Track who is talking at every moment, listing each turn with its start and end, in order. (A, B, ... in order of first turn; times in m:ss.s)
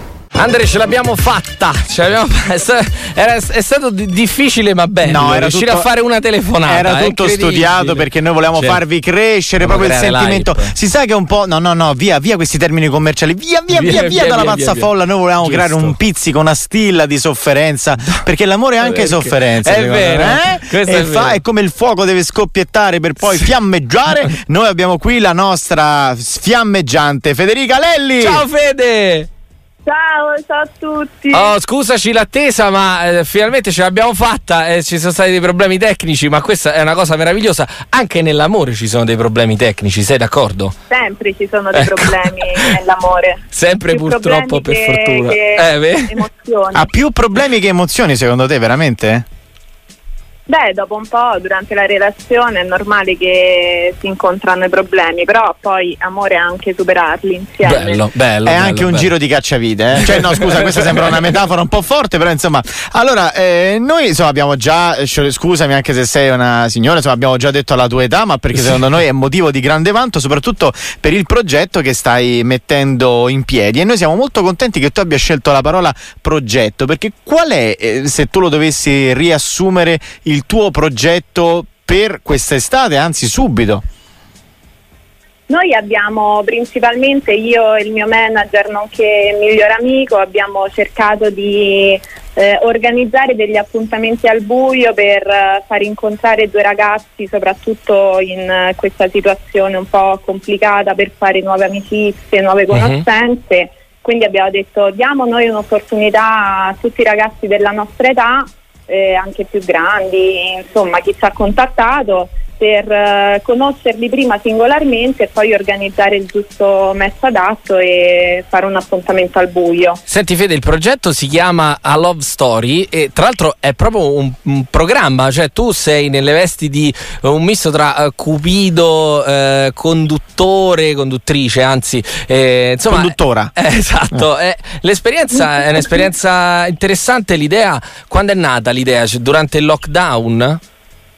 0:00.4-0:08.8 A
0:05.0-0:05.9 B
0:06.6-0:28.4 B
0:09.6-0:10.7 A
0:13.7-0:16.0 A
0:18.8-0:21.4 A
0:28.2-0:29.3 A
0:29.8-0:31.5 C
0:31.3-0:40.8 A
0:40.9-0:46.9 C
0:41.7-0:42.8 A
0:43.5-0:46.3 A
0:46.7-0:49.2 B
0:50.5-0:58.0 C
0:57.6-0:59.1 A
0:58.4-1:23.8 B
1:00.0-1:01.1 A
1:08.5-1:08.8 A
1:25.5-2:00.0 C
1:42.7-1:43.0 A
2:00.1-2:20.6 A
2:12.9-2:13.5 B